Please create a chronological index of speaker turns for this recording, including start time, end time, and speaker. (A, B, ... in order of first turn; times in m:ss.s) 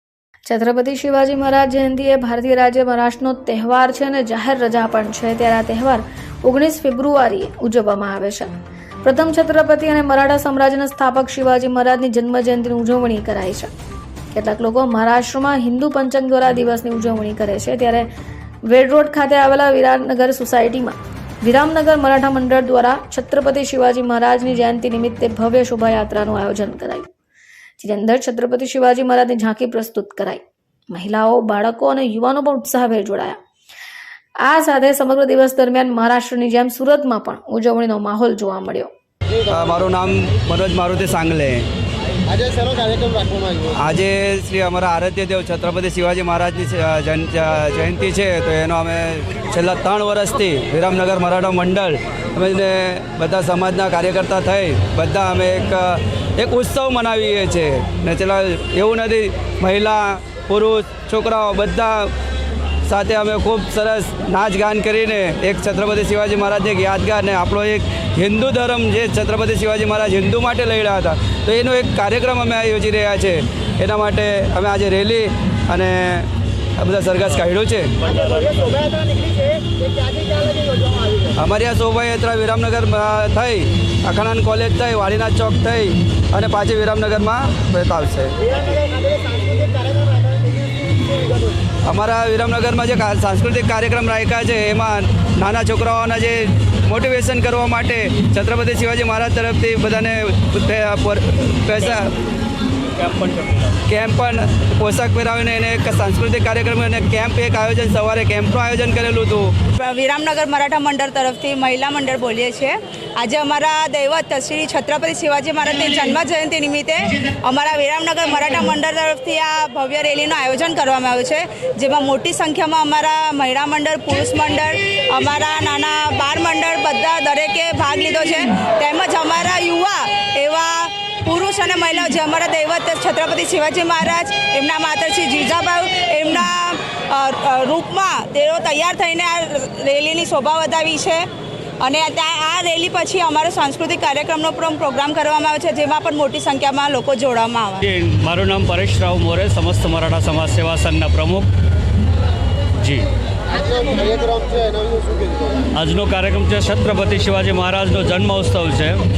0:00.4-0:08.5 A
0:09.0-0:13.7 A
0:14.3-0:18.1 A
0:18.7-0:27.1 A
0:27.8-0:33.4 A
0:34.4-0:38.9 A
0:39.5-0:41.6 B
0:42.4-0:43.6 C
0:43.7-1:02.1 B
1:02.8-1:17.9 B
1:18.0-1:18.9 D
1:18.8-1:21.3 C
1:21.3-1:28.5 B
1:28.5-1:31.6 C
1:31.8-1:42.1 B
1:42.9-1:43.8 D
1:43.9-1:49.6 B
1:49.8-2:21.3 E
2:21.8-2:27.8 E
2:27.8-2:31.5 D
2:32.8-2:33.1 D
2:33.6-2:35.6 C
2:35.7-2:39.0 D